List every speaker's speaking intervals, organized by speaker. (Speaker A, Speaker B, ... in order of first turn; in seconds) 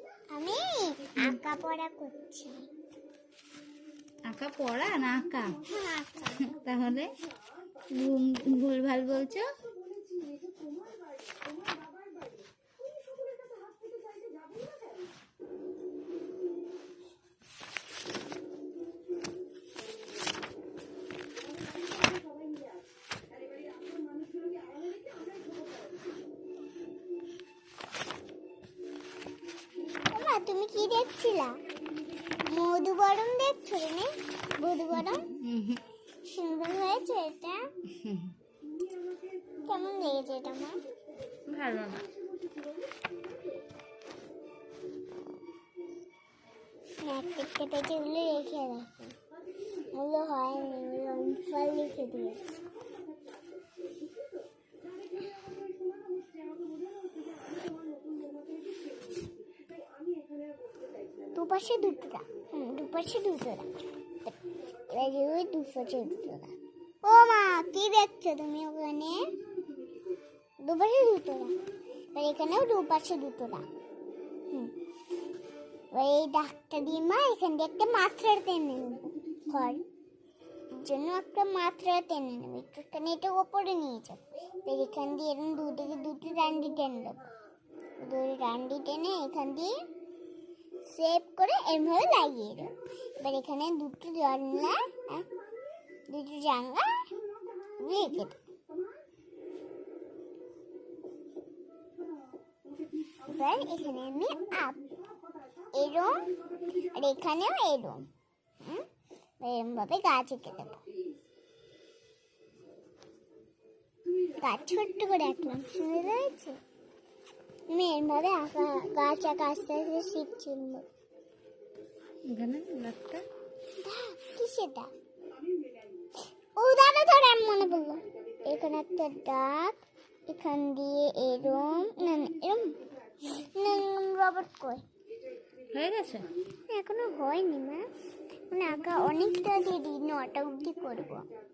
Speaker A: 0.3-2.6, 30.1-31.6, 32.4-35.3, 36.2-37.7, 39.6-40.8, 47.0-49.1, 49.9-52.6, 61.3-63.7, 64.9-69.3, 70.6-71.6, 72.1-73.7, 75.9-79.9, 80.8-87.2, 88.0-89.7, 90.9-95.3, 96.1-97.1, 97.8-98.4, 103.3-104.8, 105.7-106.3, 106.9-108.1, 109.4-110.8, 114.4-116.6, 117.7-120.9, 123.8-124.9, 126.6-134.8, 136.7-137.8, 138.5-141.3
Speaker B: 4.3-7.2, 7.9-9.5, 35.1-35.8, 38.0-38.3, 41.5-42.1, 122.3-123.2, 135.7-136.3